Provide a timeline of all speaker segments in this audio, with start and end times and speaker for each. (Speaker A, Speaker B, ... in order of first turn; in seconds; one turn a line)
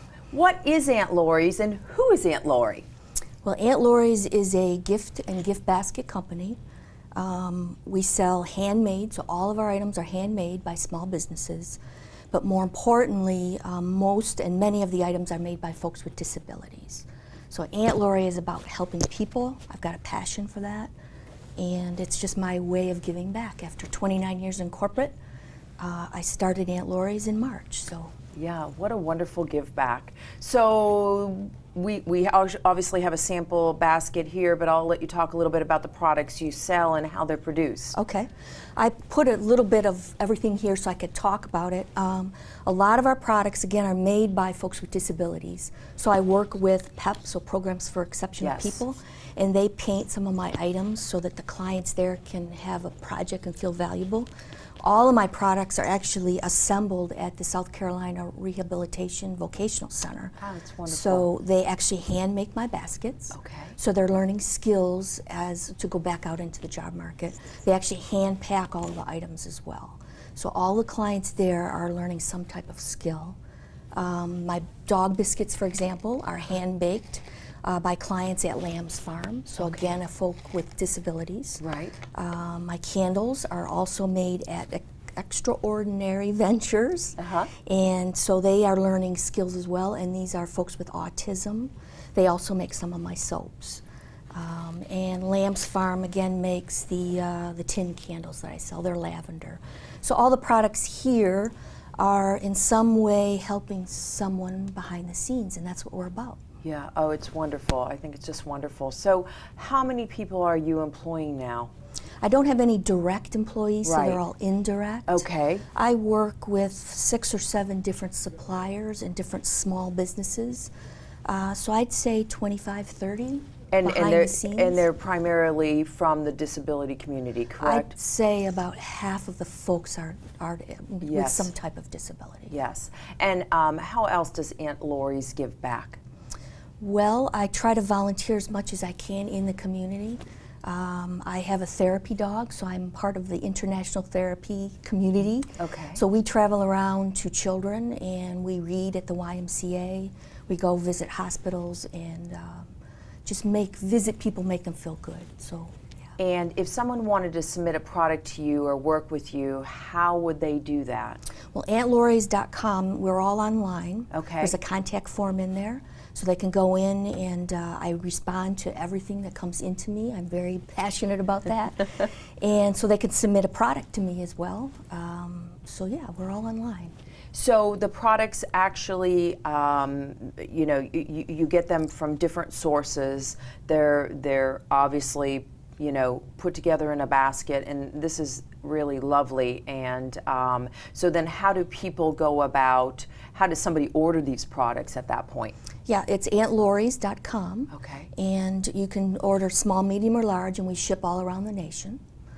Speaker A: 0.3-2.9
Speaker B: 3.4-6.6
Speaker B: 7.2-11.8
Speaker B: 12.3-20.9
Speaker B: 21.6-25.1
Speaker B: 25.8-28.1
Speaker A: 28.3-38.0
Speaker B: 37.9-54.3
Speaker A: 48.4-48.8
Speaker B: 54.8-73.4
Speaker A: 60.4-61.3
Speaker A: 63.3-63.8
Speaker B: 73.9-81.6
Speaker A: 79.6-80.0
Speaker A: 81.6-82.0
Speaker B: 82.1-93.8
Speaker A: 87.2-87.5
Speaker B: 94.3-106.4
Speaker A: 106.6-111.7
Speaker B: 112.2-120.7
Speaker A: 113.8-114.2
Speaker A: 115.1-115.7
Speaker B: 121.3-124.9
Speaker A: 123.7-127.9
Speaker B: 127.6-132.5
Speaker A: 131.0-131.5
Speaker A: 132.5-136.0
Speaker B: 136.8-152.7
Speaker A: 145.6-146.0
Speaker B: 153.2-155.8
Speaker A: 156.2-161.2
Speaker B: 161.5-176.9
Speaker A: 164.1-164.6
Speaker A: 177.3-195.6
Speaker B: 195.9-202.0
Speaker A: 197.7-198.1